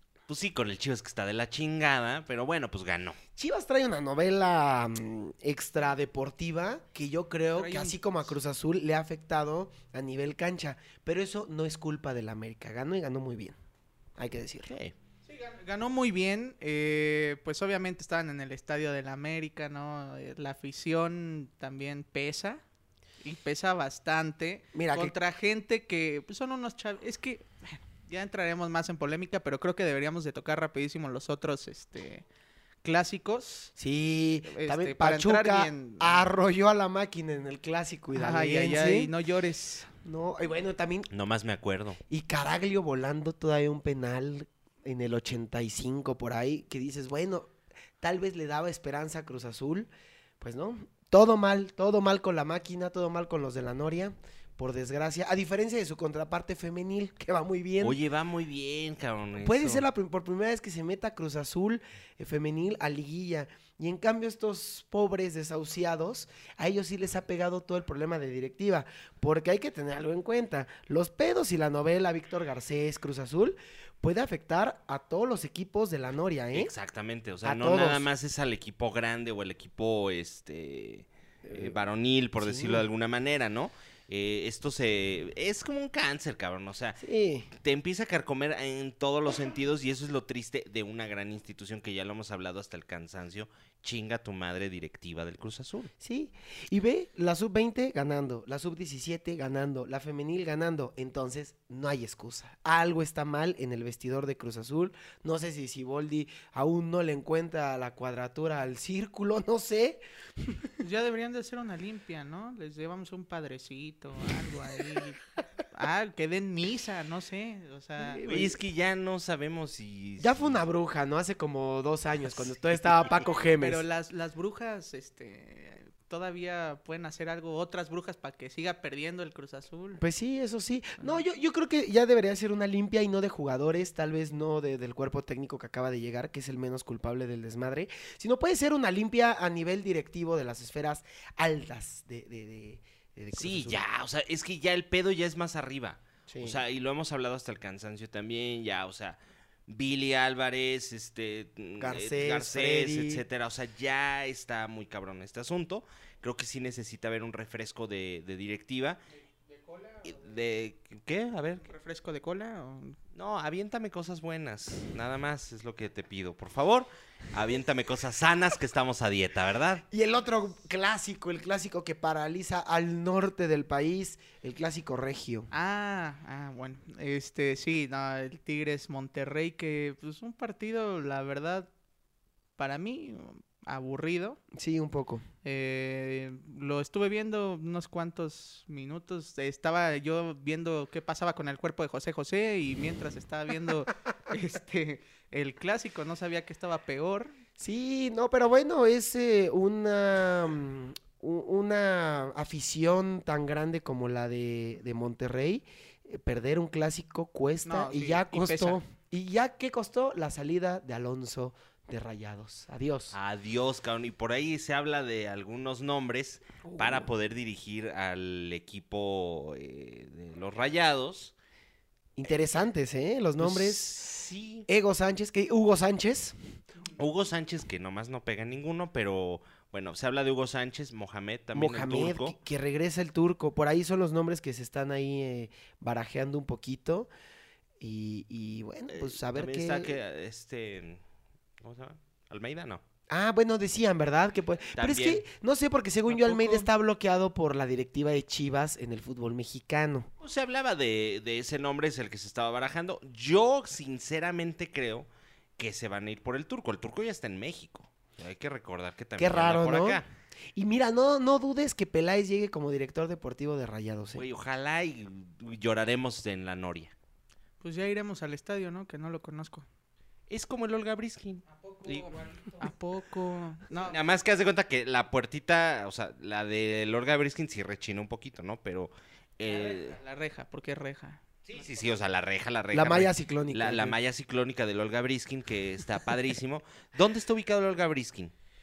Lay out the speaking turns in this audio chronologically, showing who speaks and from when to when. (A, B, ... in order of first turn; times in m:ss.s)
0:00.3-0:03.2 A
0:03.4-0:13.6 B
0:07.5-0:08.3 C
0:14.2-0:14.7 B
0:14.7-0:15.0 A
0:15.3-0:22.6 C
0:23.2-0:32.2 C
0:24.7-0:25.1 B
0:32.8-0:33.7 C
0:33.8-0:39.1 B
0:34.5-0:36.3 C
0:38.1-0:39.9 C
0:40.0-0:41.1 B
0:41.1-0:42.0 A
0:42.1-0:49.9 B
0:50.4-0:58.0 B
0:57.8-0:59.8 A
0:59.4-1:16.7 B
1:16.5-1:27.0 A
1:17.4-1:18.1 B
1:21.4-1:21.8 B
1:22.4-1:22.8 B
1:27.0-1:27.5 B
1:27.6-1:35.9 A
1:36.0-1:50.7 B
1:50.8-1:55.2 C
1:55.7-1:58.2 C
1:58.0-1:58.6 B
1:58.3-2:00.6 A
2:00.2-2:03.8 B
2:03.6-2:10.0 C
2:10.0-2:23.8 B
2:23.3-2:39.0 A
2:26.3-2:26.6 B
2:31.8-2:33.2 B
2:39.1-2:40.3 C
2:40.0-2:41.6 A
2:41.6-2:43.0 C
2:43.2-2:49.8 A
2:49.9-2:55.5 B
2:55.5-3:01.7 C
3:02.6-3:04.4 C
3:04.5-3:05.2 B
3:05.4-3:17.3 C
3:17.6-3:33.2 B
3:27.6-3:28.8 C
3:33.1-3:41.3 A
3:36.6-3:37.1 B
3:42.2-3:44.0 B
3:43.4-3:44.7 A
3:44.7-3:46.4 B
3:47.0-3:52.4 A
3:51.5-3:57.1 B
3:57.8-4:00.0 B
3:58.9-4:01.0 A
4:01.6-4:02.8 A
4:03.1-4:10.1 B
4:04.8-4:05.2 A
4:06.1-4:06.6 A
4:10.2-4:20.1 A
4:19.2-4:20.0 B
4:20.6-4:24.3 B
4:24.2-4:26.9 A
4:27.6-4:29.7 C
4:30.3-4:32.3 A
4:31.5-4:34.0 C
4:33.8-4:40.0 A
4:39.4-4:41.9 C
4:41.5-4:48.3 A
4:42.7-4:44.0 B